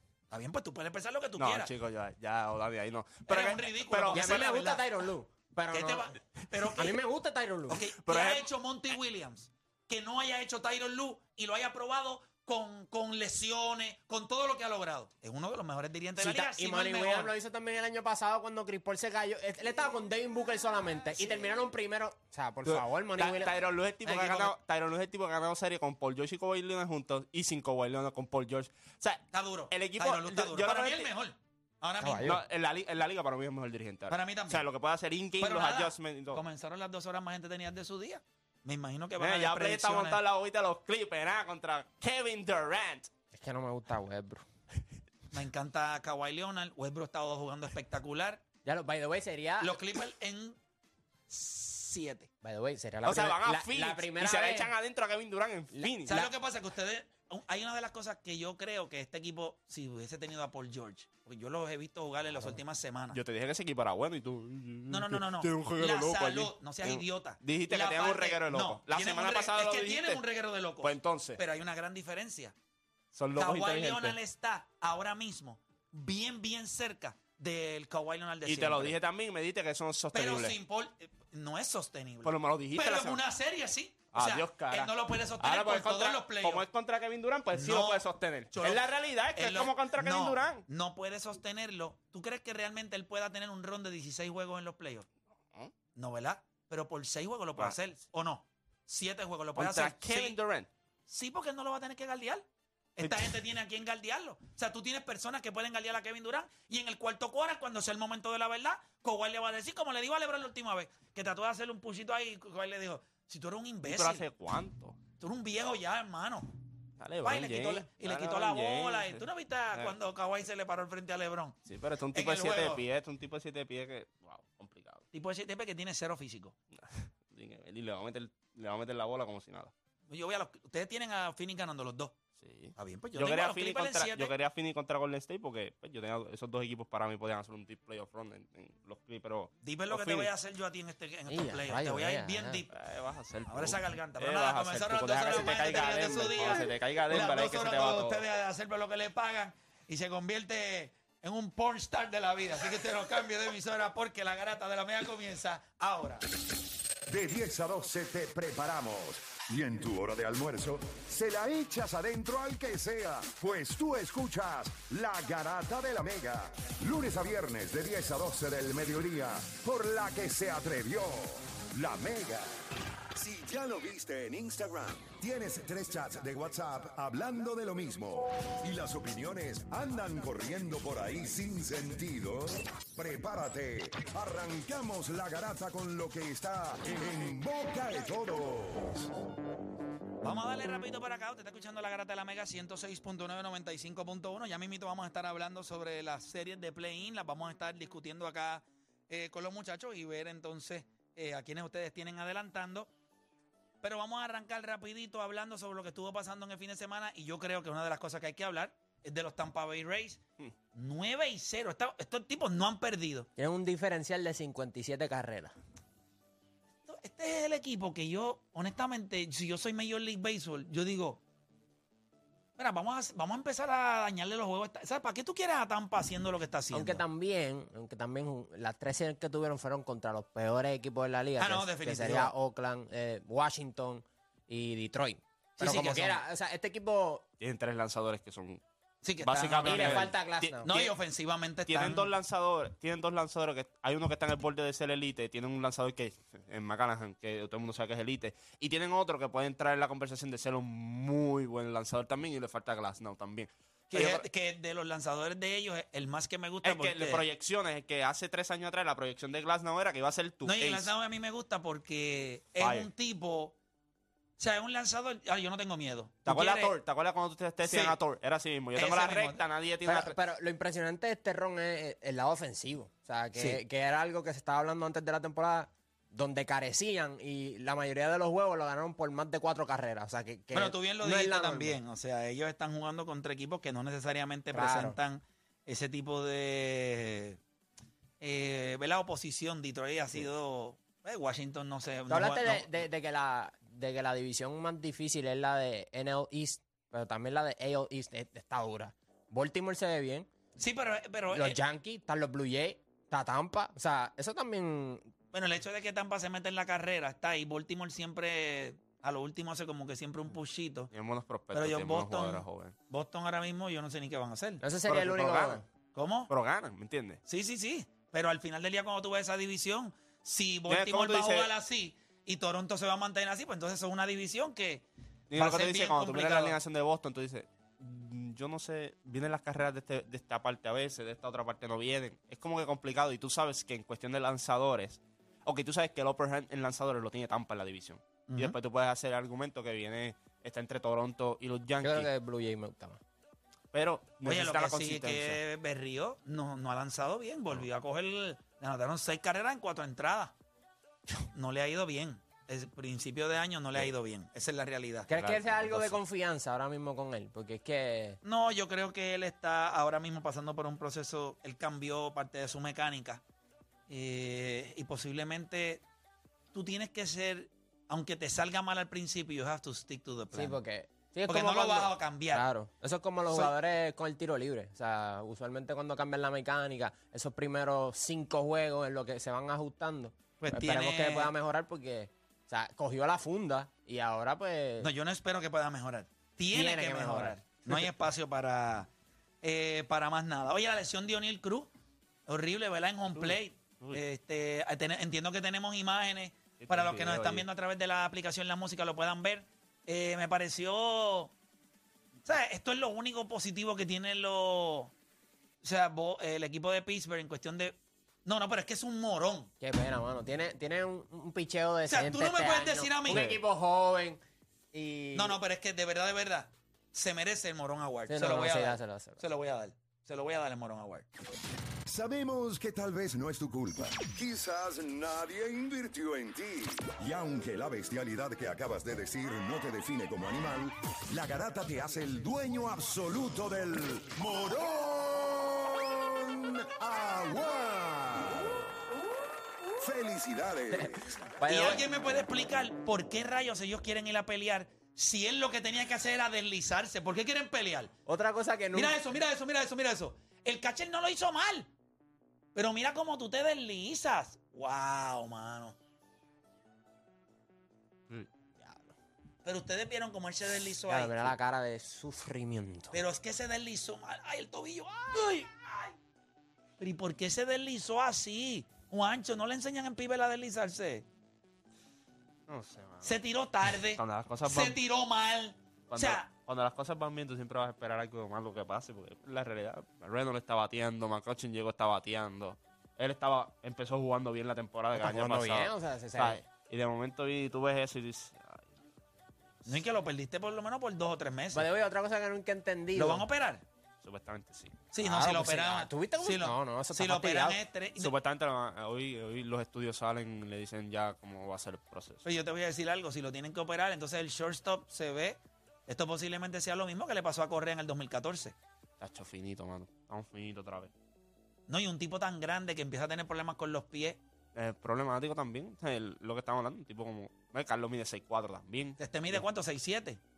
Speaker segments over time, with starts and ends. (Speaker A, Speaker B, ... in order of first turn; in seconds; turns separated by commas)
Speaker A: 0.3-1.7, Speaker B: 1.4-4.5, Speaker A: 3.2-4.9, Speaker C: 4.1-6.2, Speaker A: 5.7-7.0, Speaker C: 6.7-7.8, Speaker A: 7.7-17.3, Speaker B: 8.0-8.5, Speaker C: 16.2-23.5, Speaker B: 22.6-31.1, Speaker A: 24.1-24.5, Speaker A: 29.3-32.3, Speaker C: 32.0-32.4, Speaker B: 32.2-36.4, Speaker A: 34.1-34.6, Speaker A: 35.4-40.2, Speaker B: 39.2-43.1, Speaker C: 43.3-44.4, Speaker A: 45.3-48.4, Speaker C: 48.6-49.8, Speaker A: 49.6-50.6, Speaker A: 51.3-52.3, Speaker C: 52.4-54.7, Speaker B: 53.0-56.2, Speaker C: 55.7-56.3, Speaker A: 56.0-63.2, Speaker B: 63.1-70.2, Speaker A: 64.9-72.5, Speaker B: 70.8-71.4, Speaker B: 73.1-74.2, Speaker A: 73.3-79.0, Speaker B: 78.5-80.6, Speaker A: 80.1-86.6, Speaker B: 82.2-83.2, Speaker B: 84.1-90.6, Speaker A: 87.5-95.1, Speaker A: 95.9-100.3, Speaker B: 99.5-100.7, Speaker A: 101.1-114.2, Speaker B: 103.0-103.3, Speaker B: 113.8-115.0, Speaker A: 115.2-116.5, Speaker B: 117.0-120.0, Speaker A: 117.2-121.6, Speaker B: 121.7-125.0, Speaker A: 122.1-122.8, Speaker A: 125.1-126.5, Speaker B: 126.7-129.7, Speaker A: 130.1-132.2, Speaker B: 132.4-140.3, Speaker A: 132.8-134.3, Speaker A: 139.6-142.8, Speaker C: 141.3-142.6, Speaker B: 142.7-148.2, Speaker A: 143.5-156.2, Speaker D: 157.1-172.5, Speaker D: 173.1-189.1, Speaker A: 190.2-202.9, Speaker A: 203.8-210.2, Speaker A: 210.7-213.3, Speaker C: 213.4-215.5, Speaker A: 216.8-221.2, Speaker A: 222.6-227.0, Speaker C: 226.7-237.2, Speaker A: 231.4-232.3, Speaker A: 235.6-236.2, Speaker B: 237.4-238.6, Speaker A: 239.0-240.1, Speaker B: 239.2-240.9, Speaker C: 239.6-240.8, Speaker A: 240.6-242.1, Speaker B: 241.7-254.2, Speaker A: 253.9-257.2, Speaker B: 256.6-260.9, Speaker A: 260.4-263.5, Speaker B: 262.6-262.9, Speaker A: 264.4-266.7, Speaker B: 266.2-270.1, Speaker A: 267.6-268.0, Speaker A: 268.7-269.4, Speaker C: 269.8-281.8, Speaker A: 273.4-273.6, Speaker A: 280.5-287.4, Speaker C: 284.5-285.0, Speaker A: 288.2-292.7, Speaker C: 292.1-300.3, Speaker A: 300.6-301.6, Speaker C: 301.3-305.1, Speaker A: 305.3-310.9, Speaker B: 310.9-312.7, Speaker A: 311.5-314.6, Speaker C: 314.6-315.6, Speaker B: 314.8-315.6, Speaker A: 315.9-316.3, Speaker B: 316.3-317.2, Speaker A: 317.3-324.9, Speaker B: 320.7-321.5, Speaker B: 325.3-342.1, Speaker A: 325.4-326.6, Speaker A: 338.3-338.6, Speaker C: 341.8-343.0, Speaker B: 343.7-345.4, Speaker A: 344.2-350.3, Speaker A: 351.3-355.1, Speaker C: 355.1-358.2, Speaker B: 355.1-356.0, Speaker A: 358.2-363.2, Speaker A: 363.9-365.8, Speaker A: 366.5-370.6, Speaker C: 370.3-384.9, Speaker A: 371.3-372.4, Speaker A: 380.4-381.3, Speaker A: 384.8-388.9, Speaker C: 386.5-387.4, Speaker A: 389.4-391.7, Speaker A: 392.3-401.3, Speaker B: 393.1-394.0, Speaker B: 396.6-397.4, Speaker A: 402.2-404.9, Speaker A: 405.6-409.5, Speaker C: 409.6-414.2, Speaker A: 411.9-413.2, Speaker B: 413.1-413.4, Speaker C: 414.7-415.4, Speaker A: 415.1-421.1, Speaker C: 418.1-419.2, Speaker D: 421.9-438.6, Speaker D: 439.8-441.2, Speaker C: 440.7-441.8, Speaker A: 441.4-447.9, Speaker C: 448.1-449.0, Speaker A: 448.7-451.7, Speaker A: 452.5-455.8, Speaker C: 458.6-458.9, Speaker A: 459.4-461.3, Speaker C: 460.9-463.0, Speaker A: 462.9-465.9, Speaker A: 466.8-471.0, Speaker B: 472.5-473.1, Speaker A: 473.0-476.3, Speaker B: 473.9-474.8, Speaker B: 475.9-488.6, Speaker C: 484.9-486.4, Speaker A: 489.6-491.7, Speaker C: 491.5-493.2, Speaker A: 492.9-493.6, Speaker B: 494.0-494.8, Speaker A: 494.9-498.1, Speaker C: 495.0-497.6, Speaker B: 498.0-502.2, Speaker A: 502.2-508.6, Speaker B: 509.0-510.9, Speaker A: 511.7-514.2, Speaker B: 514.5-519.4, Speaker A: 519.0-520.2